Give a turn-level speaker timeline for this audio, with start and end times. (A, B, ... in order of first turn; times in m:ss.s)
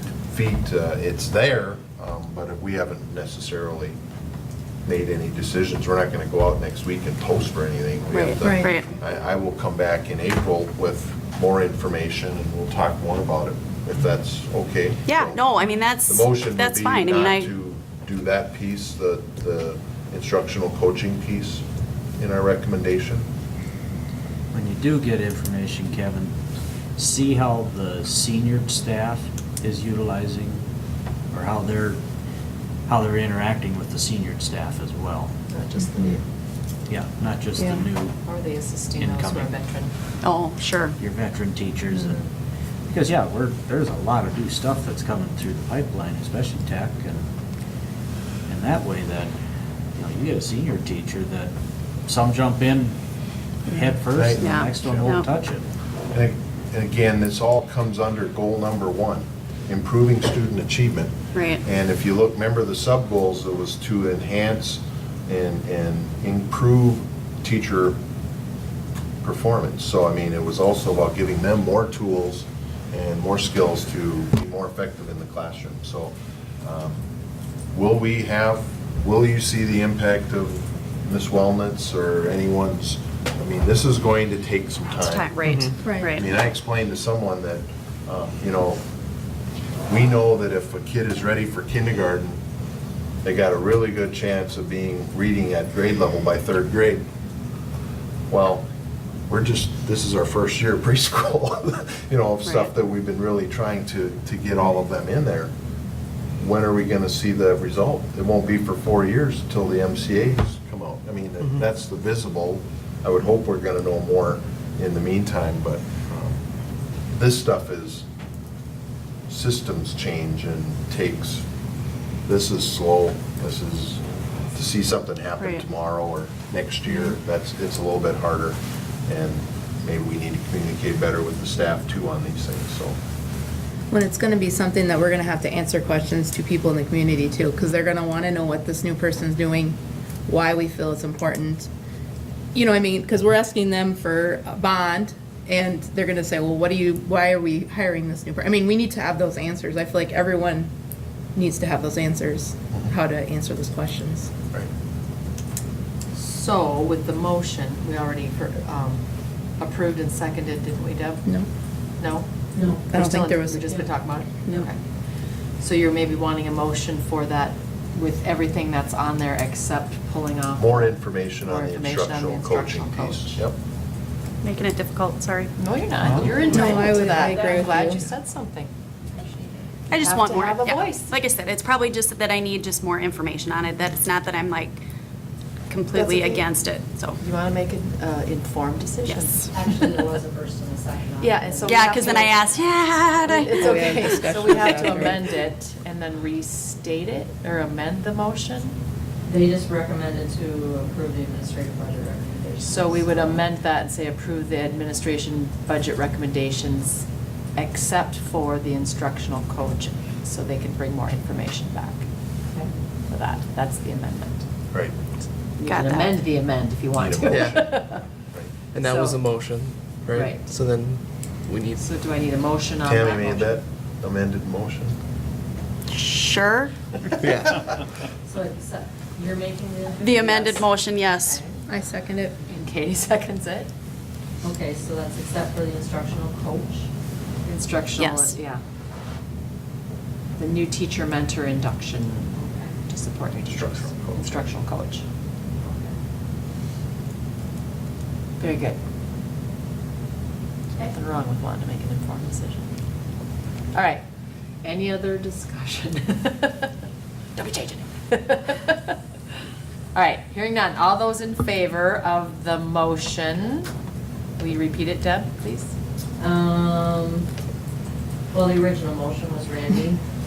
0:00.3-0:04.0 A
0:04.8-0:15.5 A
0:08.1-0:08.9 B
0:08.4-0:08.7 C
0:15.1-0:17.5 B
0:16.1-0:21.6 A
0:22.2-0:23.3 A
0:24.5-0:26.3 D
0:27.0-0:30.6 D
0:31.3-0:32.0 D
0:32.9-0:35.3 D
0:35.5-0:36.2 E
0:36.9-0:38.2 D
0:38.2-0:39.9 E
0:39.0-0:39.5 D
0:40.2-0:41.0 B
0:41.0-0:42.2 D
0:41.9-0:42.2 E
0:42.9-0:47.2 D
0:48.5-0:49.3 D
0:50.0-0:51.5 D
0:52.1-0:53.0 D
0:53.7-0:55.6 D
0:54.1-0:55.2 A
0:54.4-0:55.3 B
0:56.1-1:08.0 A
1:01.3-1:01.6 B
1:09.2-1:17.0 A
1:17.7-1:25.4 A
1:25.0-1:26.2 B
1:25.4-1:25.7 F
1:25.8-1:26.1 C
1:25.9-1:28.8 A
1:29.9-1:32.4 A
1:33.2-1:37.1 A
1:38.3-1:38.6 A
1:39.3-1:45.5 A
1:46.4-1:56.4 A
1:57.1-1:58.1 A
1:59.3-2:01.4 A
2:02.3-2:04.0 A
2:04.5-2:13.0 A
2:05.4-2:05.6 B
2:13.9-2:19.6 C
2:13.9-2:19.7 G
2:20.3-2:21.3 C
2:20.4-2:21.7 G
2:22.6-2:30.7 G
2:22.6-2:23.0 C
2:24.0-2:25.0 C
2:25.5-2:30.5 C
2:31.4-2:34.3 G
2:31.4-2:32.1 C
2:33.1-2:34.1 C
2:36.1-2:41.3 E
2:41.9-2:44.8 E
2:42.6-2:43.9 C
2:45.6-2:53.5 E
2:50.6-2:53.6 A
2:54.4-2:55.5 B
2:55.6-2:58.7 E
2:56.0-2:56.8 F
2:56.4-2:58.0 C
2:56.6-2:57.9 G
2:59.9-3:04.8 B
2:59.9-3:01.1 E
3:05.7-3:07.2 B
3:05.9-3:06.4 E
3:07.2-3:10.1 E
3:09.0-3:09.5 B
3:09.5-3:12.3 C
3:11.2-3:12.5 E
3:11.6-3:14.3 B
3:13.2-3:18.8 E
3:13.3-3:15.3 C
3:19.3-3:23.4 C
3:22.6-3:34.5 E
3:34.7-3:35.0 A
3:35.6-3:38.0 E
3:35.6-3:36.2 B
3:37.0-3:37.8 A
3:37.3-3:37.8 F
3:38.7-3:41.9 F
3:38.8-3:39.2 E
3:40.1-3:40.5 E
3:41.8-3:43.6 E
3:42.8-3:45.0 A
3:45.9-3:46.7 B
3:47.2-3:47.7 F
3:48.2-3:50.2 C
3:50.0-3:51.4 B
3:51.3-3:51.6 E
3:51.7-3:52.3 C
3:51.8-3:52.2 G
3:52.4-3:53.7 E
3:54.4-3:56.9 C
3:57.4-3:58.6 E
3:58.0-3:58.4 B
4:00.4-4:05.0 E
4:02.4-4:02.7 C
4:03.5-4:04.4 A
4:08.4-4:08.8 E
4:10.8-4:12.7 E
4:13.7-4:14.0 E
4:14.6-4:16.7 E
4:17.4-4:19.0 E
4:19.9-4:23.7 E
4:24.4-4:25.7 E
4:26.2-4:27.3 C
4:28.3-4:30.0 C